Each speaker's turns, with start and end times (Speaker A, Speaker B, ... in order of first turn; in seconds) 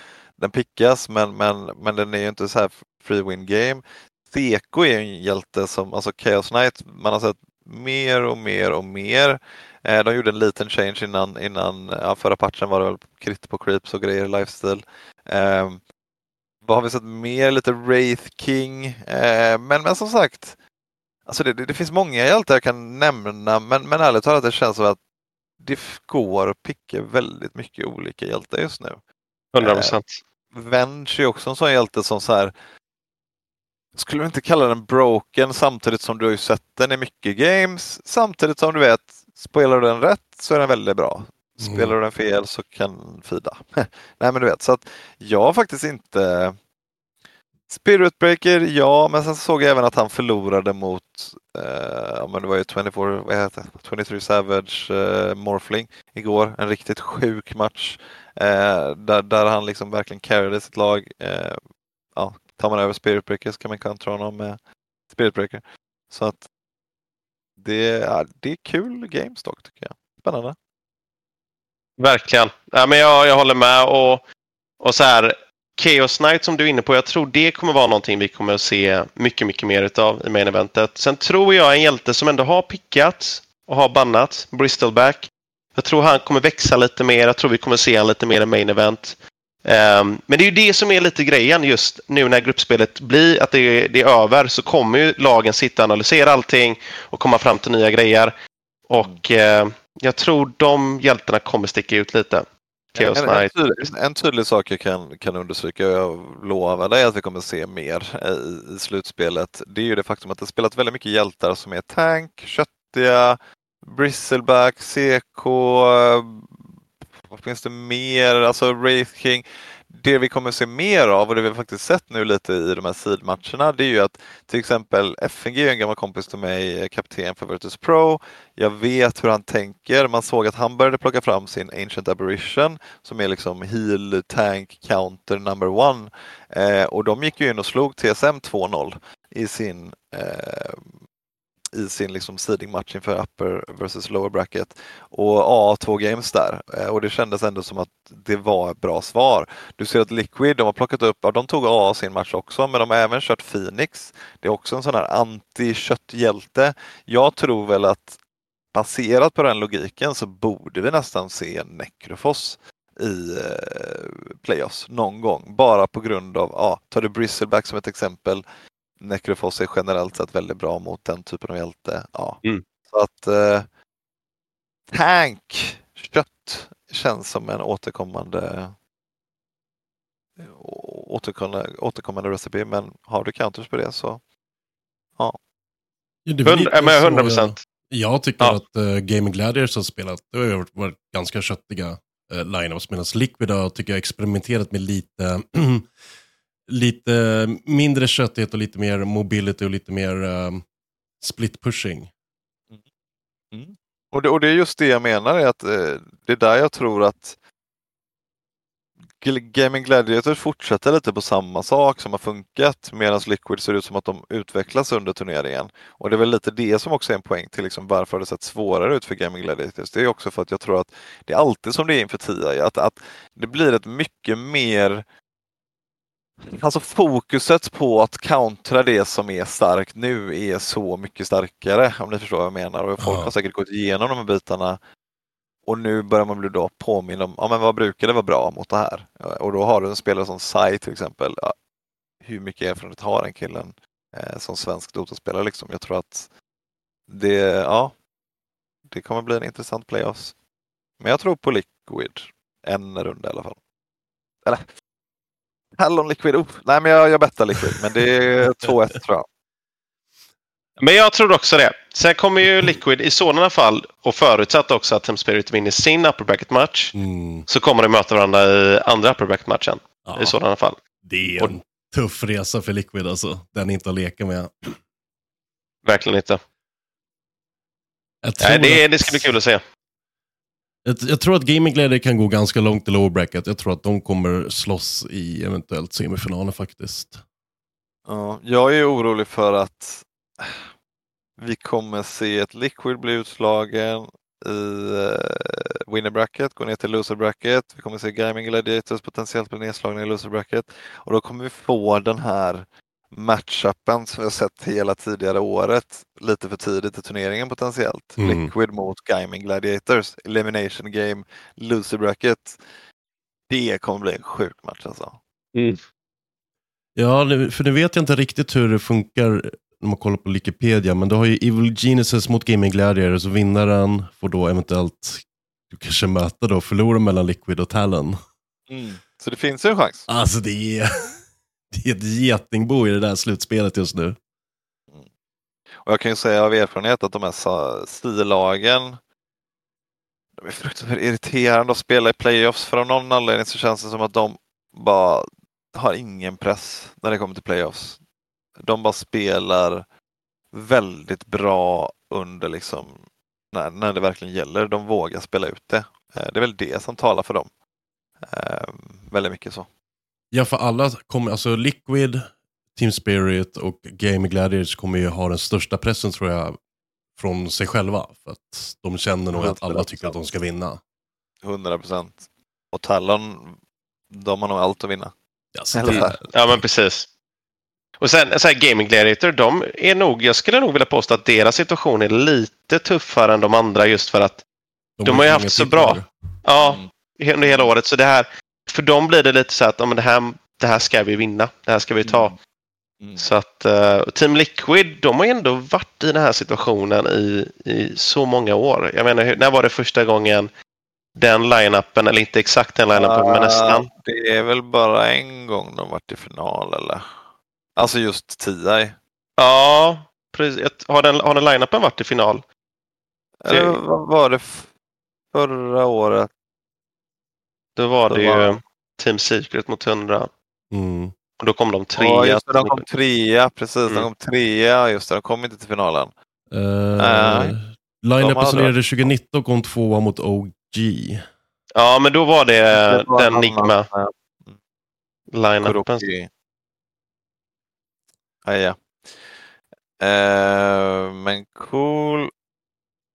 Speaker A: 0.4-15.8, 16.6-20.6, 21.3-25.0, 25.6-29.0, 29.6-30.0, 30.5-32.5, 34.0-46.6, 47.7-61.6, 62.2-64.6, 65.1-66.5, 67.6-70.6, 103.0-140.9, 141.7-158.2, 158.7-168.4, 169.0-173.7, 174.9-178.8, 180.4-184.2, 203.5-207.4, 209.2-225.1, 226.5-234.8, 235.7-241.5, 242.2-246.3, 247.1-247.9, 248.9-250.3, 251.0-253.6, 255.8-259.3, 288.1-290.7, 291.4-312.6, 313.5-315.2, 328.7-330.1, 335.8-339.0, 340.4-348.0, 348.6-349.9, 350.5-357.5, 358.3-359.7, 369.3-370.2, 371.4-373.6, 374.1-375.1, 375.7-376.2, 386.6-386.9, 387.4-387.7, 392.0-392.4, 393.0-393.3, 402.9-407.2, 407.8-409.0, 413.4-414.7, 415.3-416.3, 418.1-418.6, 422.0-426.1, 427.0-427.6, 428.2-428.8, 432.7-434.6, 435.6-436.3, 438.4-439.3, 440.0-442.3
Speaker B: 29.6-30.2, 72.0-74.2, 74.8-98.3, 98.9-103.5, 186.5-187.7, 260.8-266.9, 267.5-270.8, 275.9-276.4, 278.4-279.6, 315.6-315.8, 375.9-377.1, 378.0-384.4, 385.1-392.3, 393.2-400.5, 401.2-403.9, 409.4-412.4, 413.5-413.8, 417.8-420.3, 421.4-422.9, 431.8-433.9, 435.3-436.1
Speaker C: 41.6-41.9, 186.3-195.9, 196.7-200.6, 201.2-202.1, 233.0-233.3, 266.9-267.5, 270.0-270.4, 271.0-274.8, 278.2-279.3, 280.9-287.2, 308.2-308.5, 317.0-328.2, 330.1-331.2, 331.7-334.2, 360.3-366.6, 367.2-370.8, 375.6-376.6, 385.0-386.1, 420.7-421.1, 426.5-431.2